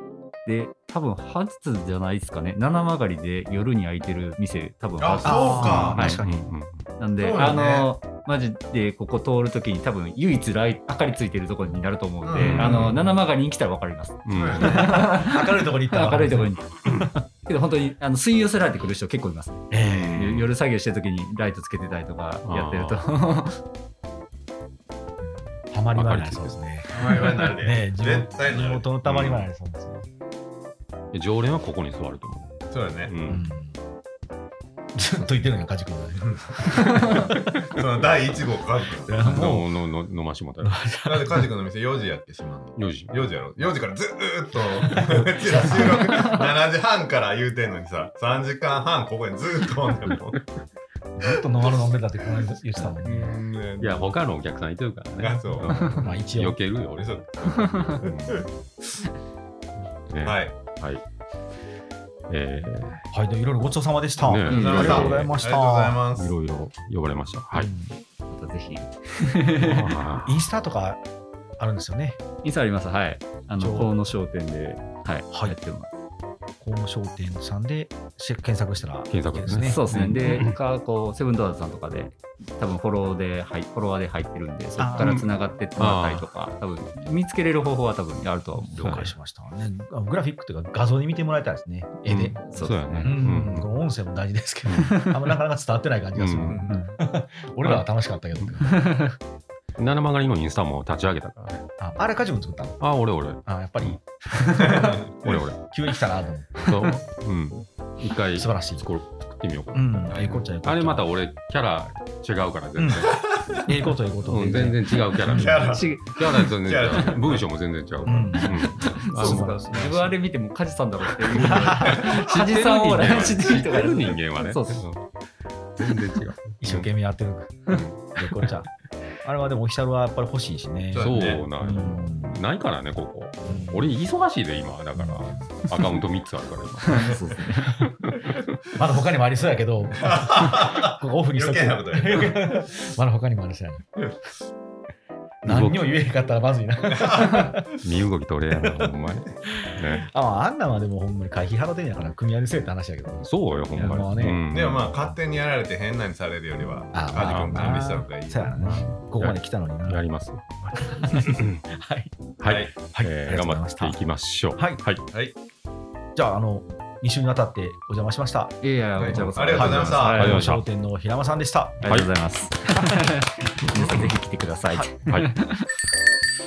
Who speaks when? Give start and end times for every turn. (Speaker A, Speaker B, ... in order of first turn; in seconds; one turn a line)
Speaker A: 0.5-6.2
Speaker B: 5.0-6.0
Speaker C: 5.2-6.4
Speaker D: 5.6-6.9
Speaker A: 7.0-16.8
Speaker B: 7.2-7.9
Speaker B: 12.2-13.0
Speaker D: 12.4-13.0
Speaker D: 14.2-15.1
Speaker B: 14.3-14.9
Speaker C: 14.8-16.5
Speaker D: 16.8-17.1
Speaker A: 17.4-23.6
Speaker C: 19.7-20.3
Speaker D: 19.8-20.5
Speaker D: 22.4-23.2
Speaker C: 25.7-30.0
Speaker D: 25.9-26.6
Speaker B: 26.9-29.3
Speaker D: 31.1-33.5
Speaker B: 32.7-33.1
Speaker C: 33.3-33.8
Speaker C: 35.0-37.8
Speaker B: 37.6-39.2
Speaker C: 39.0-39.7
Speaker D: 39.2-40.8
Speaker C: 40.6-41.5
Speaker B: 41.0-50.5
Speaker D: 42.8-43.3
Speaker C: 45.0-46.4
Speaker C: 51.2-53.3
Speaker B: 53.0-54.1
Speaker D: 53.8-58.5
Speaker B: 55.2-56.1
Speaker C: 55.9-56.6
Speaker B: 57.0-58.5
Speaker D: 60.1-61.0
Speaker B: 60.2-60.5
Speaker D: 62.3-63.0
Speaker C: 63.1-66.0
Speaker D: 64.2-65.3
Speaker A: 64.5-65.1
Speaker B: 64.5-66.3
Speaker D: 66.1-67.7
Speaker C: 67.5-68.0
Speaker A: 68.3-69.9
Speaker D: 69.6-70.5
Speaker C: 70.2-71.0
Speaker C: 71.6-72.2
Speaker A: 72.4-76.0
Speaker C: 73.6-73.9
Speaker C: 75.3-75.6
Speaker C: 76.6-79.9
Speaker D: 79.1-80.6
Speaker A: 79.6-89.1
Speaker C: 84.8-85.3
Speaker D: 85.0-86.3
Speaker C: 88.7-98.9
Speaker D: 88.8-89.1
Speaker D: 92.1-93.7
Speaker A: 92.5-93.5
Speaker D: 94.7-95.2
Speaker A: 94.8-95.1
Speaker D: 96.2-96.7
Speaker A: 96.7-97.0
Speaker A: 98.8-99.1
Speaker D: 99.8-101.6
Speaker C: 101.8-102.8
Speaker D: 102.8-104.0
Speaker C: 103.5-106.8
Speaker B: 104.6-105.3
Speaker D: 104.6-105.6
Speaker D: 106.6-113.7
Speaker C: 108.4-108.9
Speaker C: 109.7-111.1
Speaker B: 110.1-110.5
Speaker C: 112.8-115.7
Speaker D: 114.2-119.7
Speaker B: 115.2-117.4
Speaker A: 115.6-116.5
Speaker C: 118.1-120.2
Speaker A: 118.7-124.8
Speaker D: 121.3-125.0
Speaker C: 121.4-122.2
Speaker D: 125.8-126.9
Speaker C: 126.6-128.7
Speaker D: 127.7-127.9
Speaker C: 129.2-132.4
Speaker B: 130.9-131.4
Speaker D: 130.9-137.2
Speaker C: 133.4-133.9
Speaker C: 134.9-135.5
Speaker A: 136.8-137.8
Speaker D: 138.0-138.3
Speaker C: 138.7-143.9
Speaker B: 140.0-142.7
Speaker D: 145.4-146.0
Speaker C: 145.4-147.7
Speaker B: 146.9-147.4
Speaker D: 147.7-150.1
Speaker C: 148.6-148.9
Speaker C: 149.6-154.4
Speaker D: 153.2-155.1
Speaker B: 154.5-158.5
Speaker C: 156.9-160.0
Speaker D: 157.1-157.9
Speaker D: 158.6-160.5
Speaker C: 160.8-162.1
Speaker D: 161.1-161.6
Speaker D: 162.4-165.1
Speaker B: 162.4-162.7
Speaker C: 162.8-164.0
Speaker C: 164.6-164.8
Speaker C: 166.2-168.6
Speaker A: 168.6-170.5
Speaker B: 169.0-170.3
Speaker C: 169.1-171.9
Speaker D: 170.1-170.6
Speaker A: 171.8-175.7
Speaker D: 171.8-172.1
Speaker C: 172.7-173.0
Speaker D: 175.1-175.4